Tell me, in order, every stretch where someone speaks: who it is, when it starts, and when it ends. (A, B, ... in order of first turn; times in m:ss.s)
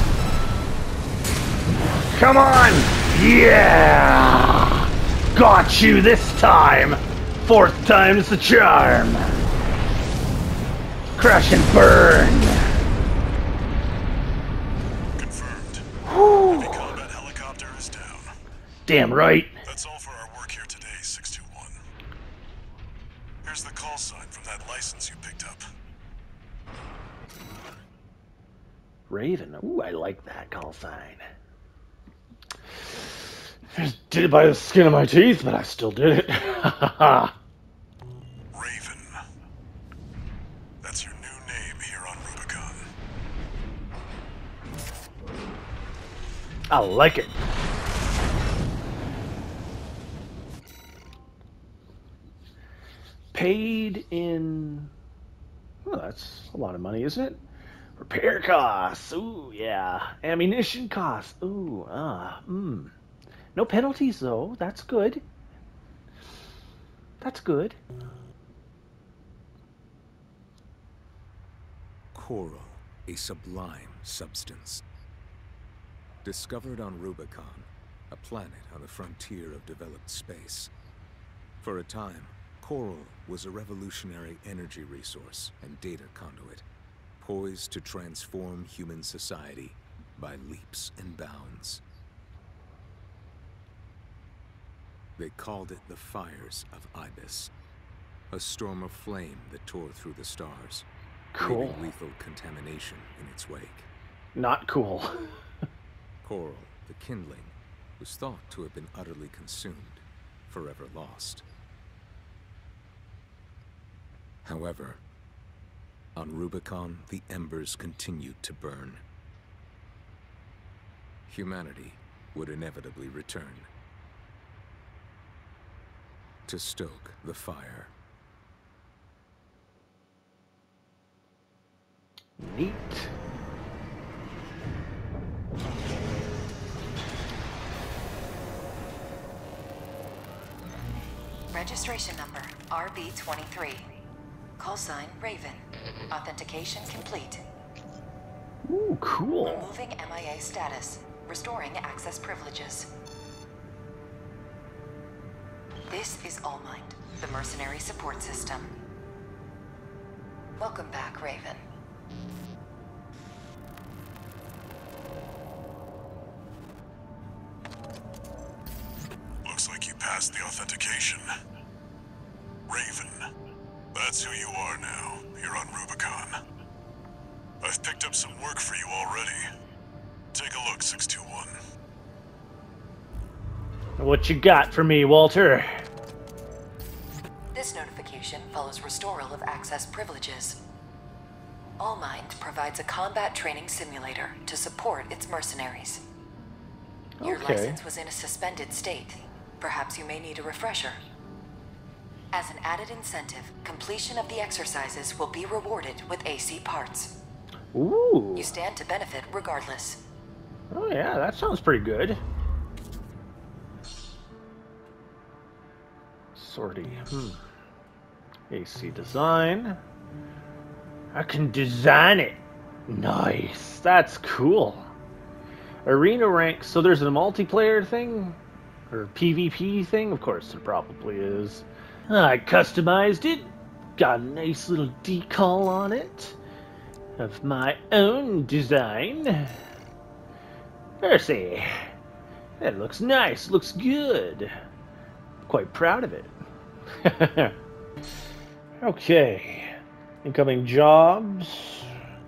0:02.1-0:09.3 A
0:11.2-0:12.7 A
0:15.2-0:15.9 B
0:16.1-0:17.0 A
0:16.5-0:18.3 B
0:18.9-0:19.5 A
0:19.6-0:21.8 B
0:23.4-0:25.6 B
0:29.1-0:31.2 A
0:33.7-0:37.3 A
0:38.5-0:39.2 B
0:40.8-0:42.9 B
0:46.7-0:47.4 A
0:53.3-0:54.9 A
0:55.9-0:57.4 A
0:58.0-1:02.9 A
1:03.6-1:05.2 A
1:07.2-1:07.8 A
1:12.1-1:14.8 C
1:16.2-1:20.7 C
1:21.6-1:26.6 C
1:27.2-1:31.8 C
1:35.2-1:37.5 C
1:38.3-1:40.9 C
1:41.3-1:41.9 A
1:41.4-1:43.9 C
1:44.4-1:45.4 A
1:46.2-1:51.4 C
1:54.4-1:55.0 C
1:56.2-1:59.0 C
2:01.3-2:03.7 C
2:06.4-2:07.9 C
2:12.4-2:13.1 A
2:21.5-2:23.8 D
2:24.6-2:27.4 D
2:28.6-2:29.7 A
2:29.4-2:32.9 D
2:35.9-2:38.7 D
2:40.6-2:41.6 D
2:49.4-2:51.3 B
2:52.7-2:53.2 B
2:53.9-2:56.4 B
2:57.6-2:59.4 B
3:00.3-3:01.6 B
3:04.0-3:05.8 A
3:07.5-3:10.6 D
3:11.8-3:16.0 D
3:17.2-3:17.8 A
3:17.2-3:21.0 D
3:22.3-3:27.1 D
3:27.7-3:28.5 A
3:28.4-3:30.0 D
3:30.7-3:32.2 A
3:36.4-3:37.4 A
3:38.5-3:39.8 A
3:41.1-3:44.9 A
3:45.8-3:48.4 A
3:48.9-3:56.4 A
3:57.2-3:59.6 A
4:01.0-4:01.7 A
4:02.6-4:04.5 A
4:05.5-4:06.3 A
4:07.0-4:07.5 A
4:08.8-4:09.7 A
4:10.2-4:11.9 A